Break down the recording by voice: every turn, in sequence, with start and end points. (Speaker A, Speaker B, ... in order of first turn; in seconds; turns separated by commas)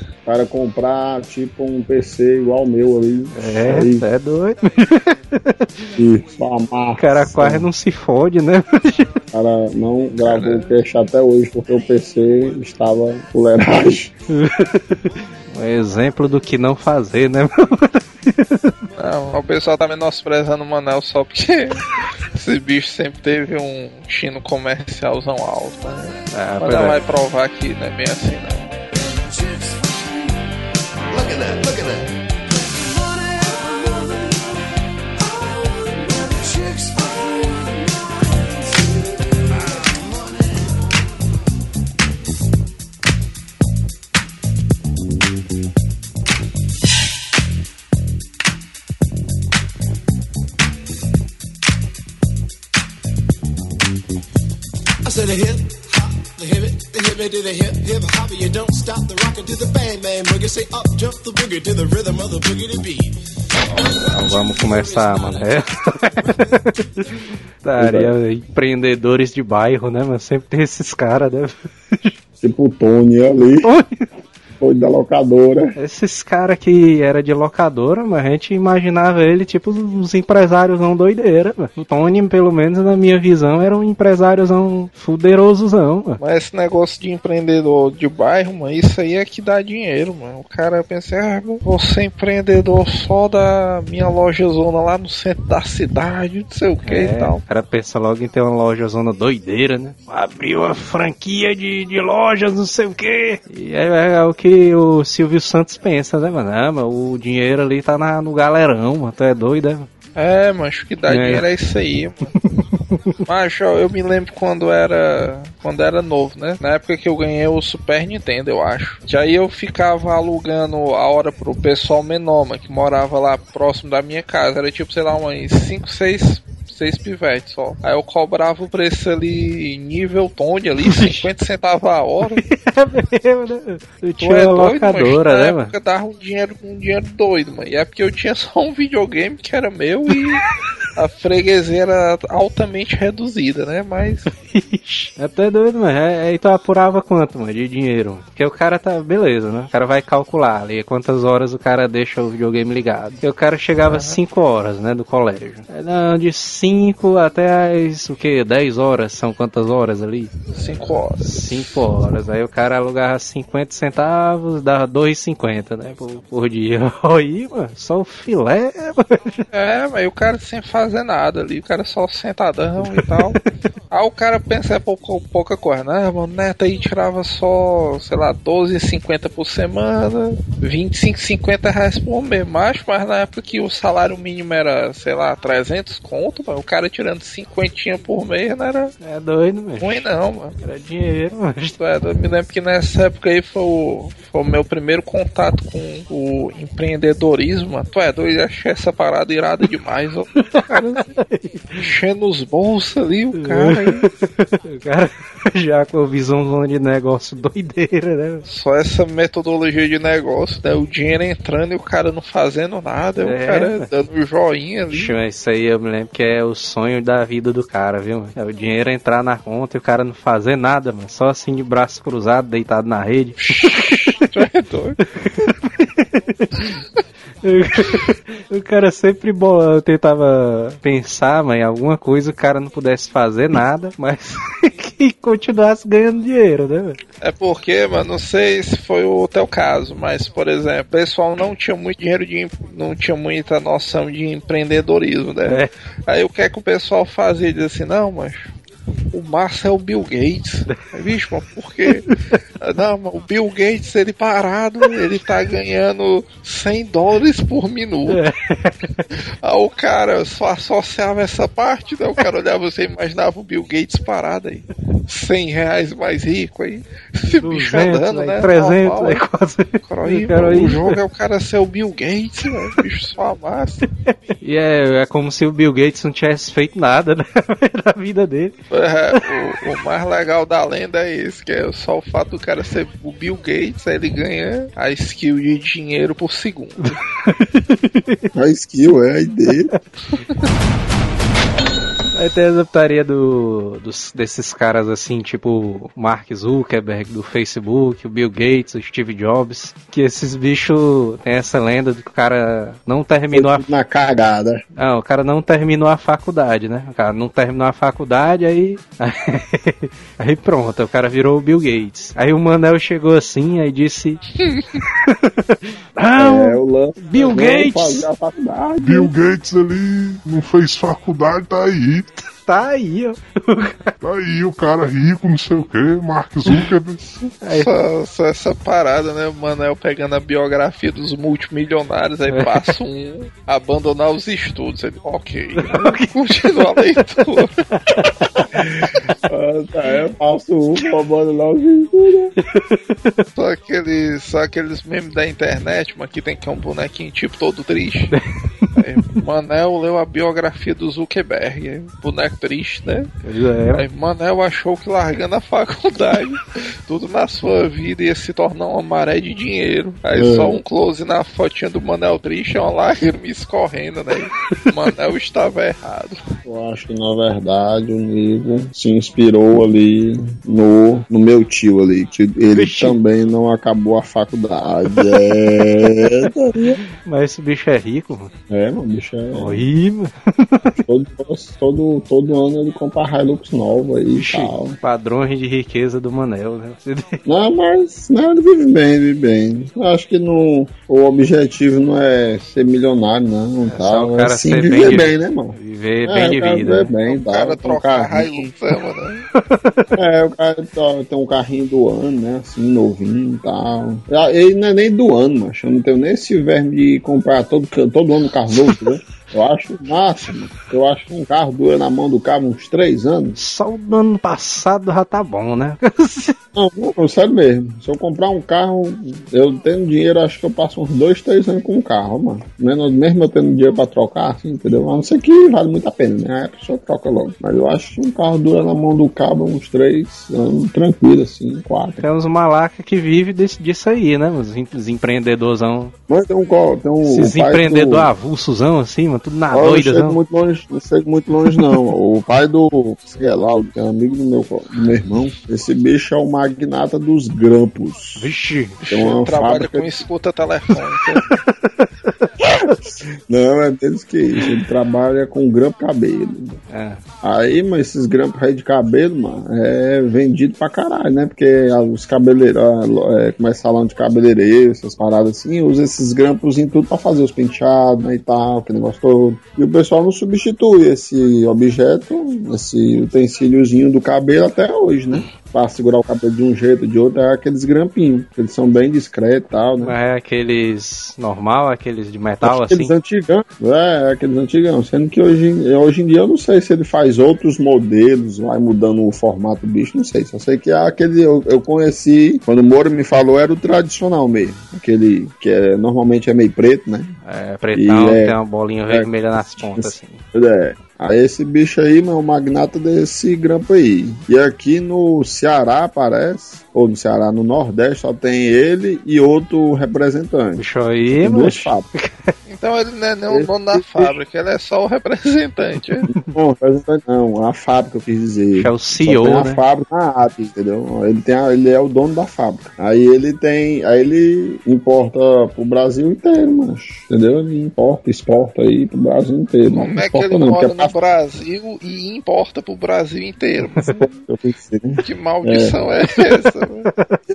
Speaker A: 0.2-4.1, Speaker B: 3.3-5.8, Speaker A: 5.9-7.7, Speaker B: 7.0-9.2, Speaker A: 9.3-14.1, Speaker C: 10.2-10.7, Speaker B: 14.3-18.7, Speaker C: 19.0-28.7, Speaker B: 26.3-27.0, Speaker D: 28.9-30.5, Speaker D: 31.1-40.8, Speaker D: 55.0-67.0, Speaker B: 64.1-67.0, Speaker B: 67.6-72.1, Speaker A: 67.8-68.1, Speaker A: 72.4-73.7, Speaker B: 73.6-74.0, Speaker A: 74.6-75.8, Speaker B: 75.8-86.2, Speaker C: 86.2-97.4, Speaker B: 96.8-109.9, Speaker C: 110.2-112.3, Speaker B: 111.1-111.5, Speaker B: 112.4-113.2, Speaker C: 113.2-132.4, Speaker B: 130.8-131.3, Speaker B: 132.3-135.7, Speaker C: 134.2-140.4, Speaker C: 140.9-144.3, Speaker B: 144.4-160.5, Speaker C: 153.8-154.2, Speaker C: 160.5-161.8, Speaker B: 161.2-169.4, Speaker C: 169.5-173.4, Speaker B: 172.8-173.4, Speaker C: 173.9-188.9, Speaker B: 189.0-190.1, Speaker C: 189.8-190.6, Speaker B: 190.6-191.8, Speaker C: 191.8-201.2, Speaker B: 200.4-201.8, Speaker C: 201.8-204.1, Speaker B: 203.4-208.4, Speaker C: 208.4-215.1, Speaker B: 213.2-213.8, Speaker B: 214.9-224.2, Speaker C: 223.4-225.0, Speaker B: 225.2-226.8, Speaker B: 227.4-237.0, Speaker C: 237.2-248.5, Speaker B: 245.5-245.7, Speaker C: 249.1-252.1, Speaker C: 252.6-258.2, Speaker B: 258.1-259.1, Speaker C: 259.4-269.2, Speaker B: 267.3-271.0, Speaker C: 269.8-273.8, Speaker B: 274.4-278.5, Speaker C: 278.7-287.0, Speaker B: 286.8-288.3, Speaker A: 288.3-289.7, Speaker C: 290.1-290.4, Speaker B: 292.1-303.7, Speaker A: 303.3-304.6, Speaker B: 304.8-314.2, Speaker C: 314.4-314.8, Speaker B: 314.9-318.0, Speaker A: 316.2-319.1, Speaker E: 318.8-322.2, Speaker B: 322.4-323.9, Speaker E: 324.0-327.0, Speaker B: 327.4-327.7, Speaker C: 327.5-337.6, Speaker B: 332.3-332.7, Speaker B: 335.6-336.1, Speaker B: 337.8-338.6, Speaker A: 338.6-342.3, Speaker B: 342.4-343.2, Speaker C: 343.4-348.1, Speaker B: 348.1-348.7, Speaker C: 348.8-353.1, Speaker B: 353.2-353.9, Speaker C: 353.7-366.2, Speaker A: 360.1-360.6, Speaker A: 366.4-376.8, Speaker B: 372.5-373.0, Speaker B: 376.9-378.3, Speaker A: 378.5-379.7, Speaker B: 379.3-380.8, Speaker A: 380.9-384.8, Speaker B: 384.1-387.2, Speaker A: 387.2-398.5, Speaker B: 393.7-396.9, Speaker C: 397.1-399.2, Speaker B: 399.4-399.9, Speaker A: 399.9-413.4, Speaker B: 413.4-416.4, Speaker A: 416.5-432.0, Speaker B: 432.0-435.9, Speaker A: 436.1-438.1, Speaker B: 437.0-440.2, Speaker A: 439.5-448.3, Speaker B: 448.2-448.8, Speaker C: 448.8-451.4, Speaker A: 448.9-450.1, Speaker B: 451.2-452.7, Speaker A: 452.4-456.6, Speaker B: 456.7-457.0, Speaker A: 457.2-479.9, Speaker B: 479.8-482.9, Speaker A: 482.4-497.1, Speaker B: 497.2-500.2, Speaker A: 497.7-498.4, Speaker A: 498.9-511.8, Speaker B: 510.6-512.3, Speaker C: 512.5-516.1, Speaker A: 513.3-514.1, Speaker A: 516.3-530.9, Speaker B: 518.5-519.6, Speaker C: 529.7-534.0, Speaker A: 533.8-535.8, Speaker C: 535.0-536.9, Speaker B: 536.9-537.2